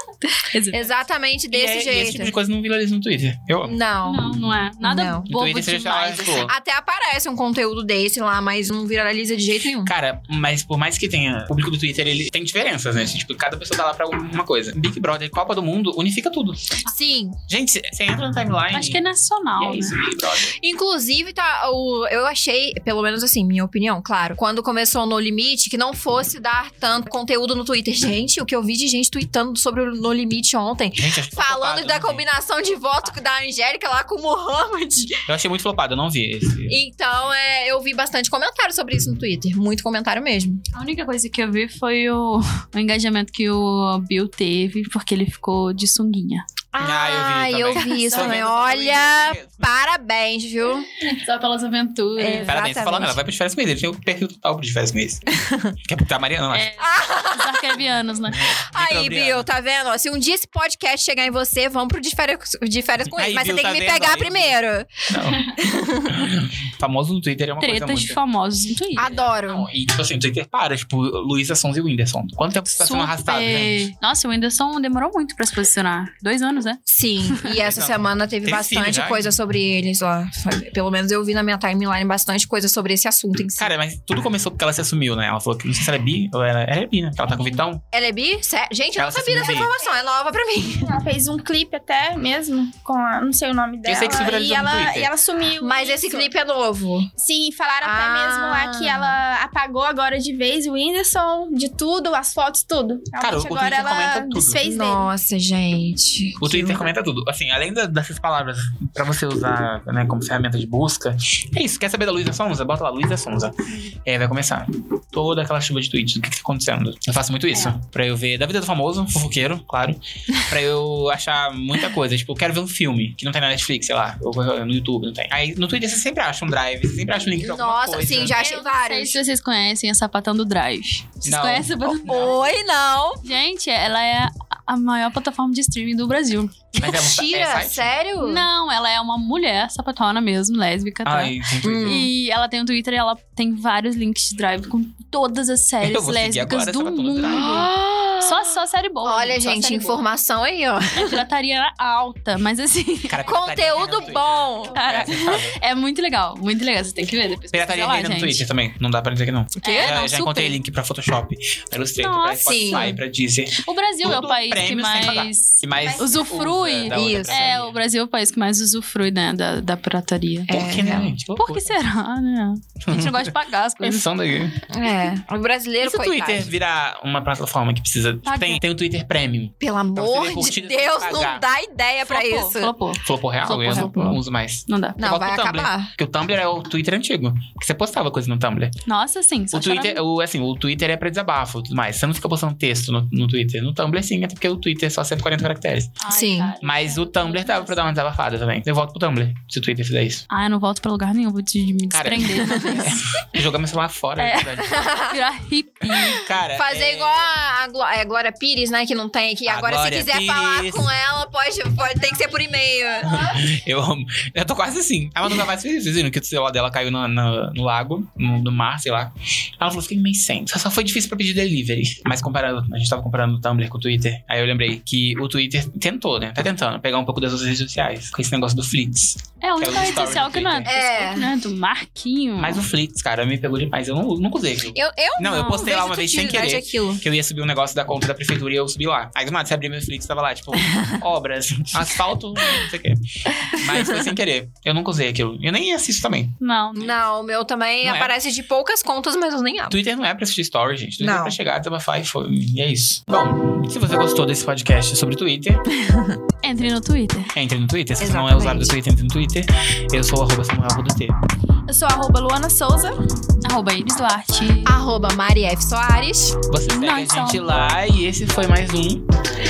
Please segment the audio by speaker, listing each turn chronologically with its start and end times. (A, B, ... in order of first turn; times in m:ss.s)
0:00.3-0:00.9 A
0:00.7-0:02.3 B
0:01.5-0:03.8 C
0:03.6-0:04.3 B
0:04.0-0:06.5 A
0:04.8-0:05.3 B
0:05.3-0:06.5 C
0:06.4-0:09.9 B
0:09.8-0:16.8 C
0:16.8-0:17.4 B
0:17.5-0:19.0 C
0:18.7-0:20.0 A
0:19.6-0:20.5 C
0:20.6-0:35.2 B
0:31.0-0:32.3 C
0:35.3-0:36.8 C
0:36.7-0:40.6 B
0:40.7-0:46.4 A
0:46.7-0:50.9 B
0:46.8-0:49.7 C
0:47.8-0:48.4 A
0:51.0-0:52.6 A
0:52.2-0:53.2 B
0:52.4-0:55.3 C
0:55.3-0:55.7 B
0:55.8-0:56.7 C
0:56.5-0:58.4 A
0:56.8-0:57.8 B
0:58.3-0:59.5 C
0:58.7-1:06.3 B
1:03.2-1:04.6 C
1:05.1-1:05.5 C
1:06.1-1:08.2 C
1:07.6-1:09.1 A
1:09.0-1:09.7 B
1:09.0-1:13.9 C
1:12.8-1:17.6 A
1:16.9-1:23.7 B
1:17.6-1:19.3 C
1:23.6-1:27.8 C
1:27.9-1:30.9 B
1:29.0-1:29.7 C
1:29.5-1:29.9 D
1:30.8-1:36.3 D
1:33.8-1:35.1 C
1:35.6-1:37.1 B
1:37.2-1:45.1 D
1:37.8-1:39.2 B
1:43.2-1:44.6 C
1:44.6-1:46.8 B
1:46.4-2:08.4 C
2:07.4-2:09.2 B
2:08.3-2:12.3 A
2:11.2-2:12.4 C
2:12.0-2:13.2 B
2:13.2-2:16.6 A
2:16.7-2:18.5 B
2:16.8-2:17.9 C
2:18.2-2:30.0 A
2:21.0-2:22.1 C
2:21.6-2:22.1 B
2:25.8-2:27.7 C
2:27.3-2:31.2 B
2:31.0-2:33.3 A
2:33.1-2:35.6 C
2:33.2-2:35.2 B
2:34.0-2:34.7 D
2:34.7-2:38.4 A
2:37.5-2:47.8 C
2:39.6-2:40.6 A
2:39.6-2:40.0 B
2:42.0-2:43.0 A
2:42.4-2:42.9 B
2:43.6-2:50.5 A
2:45.8-2:46.2 D
2:46.9-2:47.4 B
2:50.5-2:51.2 B
2:50.5-2:51.7 C
2:51.4-2:54.1 A
2:52.8-2:54.6 C
2:54.7-2:56.5 B
2:55.8-3:01.4 C
2:58.2-2:58.6 A
2:59.6-3:02.7 B
3:02.0-3:05.0 A
3:03.0-3:08.8 C
3:05.0-3:05.9 B
3:08.9-3:10.0 A
3:09.5-3:16.0 C
3:16.0-3:17.9 A
3:16.1-3:16.5 B
3:16.6-3:20.2 C
3:20.3-3:23.2 A
3:21.9-3:24.7 C
3:24.2-3:26.3 A
3:24.6-3:25.2 B
3:26.1-3:27.3 C
3:26.6-3:33.3 B
3:29.5-3:30.9 C
3:33.1-3:50.7 C
3:49.4-3:52.6 A
3:50.7-3:51.3 B
3:52.4-4:06.4 C
3:54.7-3:57.0 B
4:06.4-4:07.0 A
4:06.8-4:09.8 B
4:07.8-4:08.1 C
4:09.7-4:15.7 C
4:11.0-4:11.4 B
4:15.8-4:16.2 B
4:16.4-4:17.3 A
4:17.3-4:21.2 C
4:18.0-4:18.8 B
4:21.7-4:23.0 D
4:23.4-4:24.8 A
4:24.6-4:26.4 B
4:26.5-4:29.2 C
4:26.7-4:27.6 A